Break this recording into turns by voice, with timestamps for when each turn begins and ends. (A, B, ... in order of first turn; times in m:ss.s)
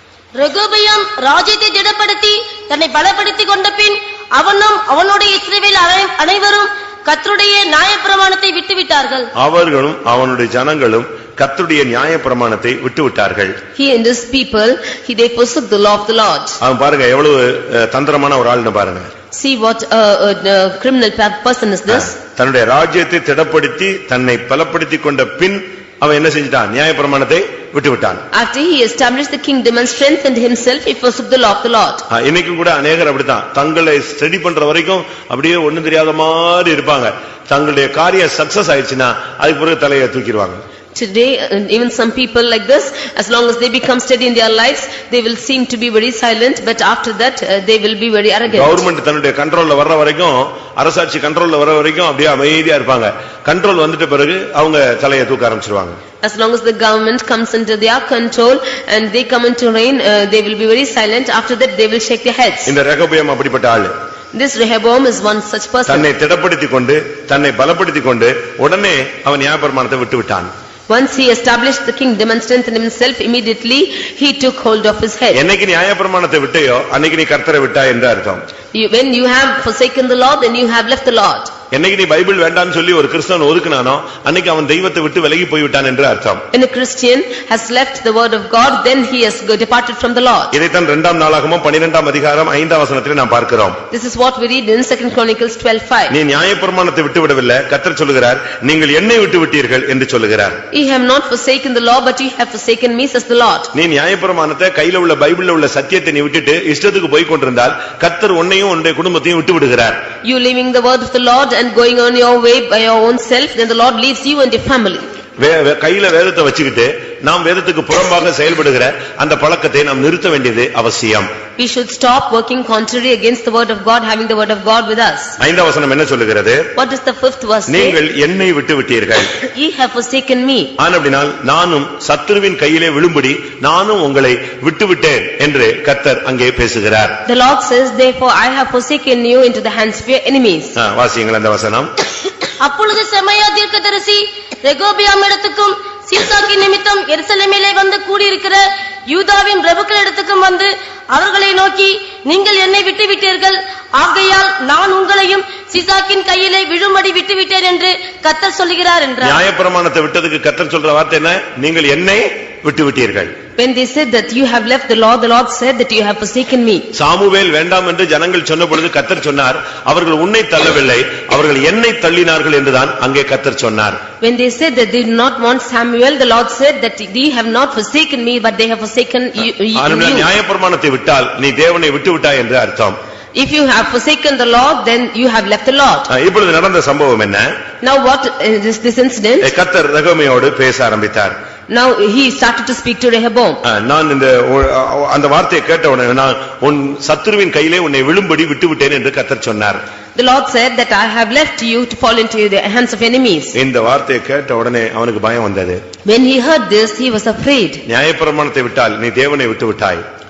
0:00.3-0:09.3 A
0:09.4-0:13.6 B
0:13.8-0:16.6 C
0:16.6-0:19.1 B
0:19.3-0:22.1 C
0:21.9-0:28.2 B
0:28.3-0:32.0 C
0:32.1-0:40.6 B
0:40.9-0:48.8 C
0:48.5-0:56.0 B
0:56.2-1:02.7 C
1:02.6-1:03.9 B
1:04.3-1:06.1 C
1:05.9-1:10.5 B
1:10.9-1:15.4 C
1:15.3-1:18.4 B
1:18.7-1:21.5 C
1:21.7-1:26.4 B
1:26.5-1:30.5 C
1:30.5-1:33.8 B
1:33.9-1:36.1 C
1:36.1-1:40.6 B
1:40.7-1:43.7 C
1:43.7-1:50.0 B
1:50.2-1:55.0 C
1:55.4-2:01.3 B
2:01.6-2:05.4 C
2:05.4-2:06.7 B
2:06.7-2:08.0 C
2:07.7-2:09.3 B
2:09.5-2:10.7 C
2:10.8-2:17.2 B
2:17.2-2:20.8 C
2:20.8-2:21.9 B
2:22.6-2:39.4 A
2:39.2-2:43.3 B
2:43.6-2:46.9 C
2:46.9-2:54.0 B
2:54.2-3:00.3 C
2:59.7-3:03.0 B
3:03.3-3:06.1 C
3:06.1-3:07.5 B
3:07.8-3:09.5 C
3:09.4-3:11.3 B
3:11.7-3:13.6 C
3:13.6-3:19.8 B
3:20.1-3:23.6 C
3:23.5-3:25.8 B
3:26.0-3:27.8 C
3:27.8-3:30.0 B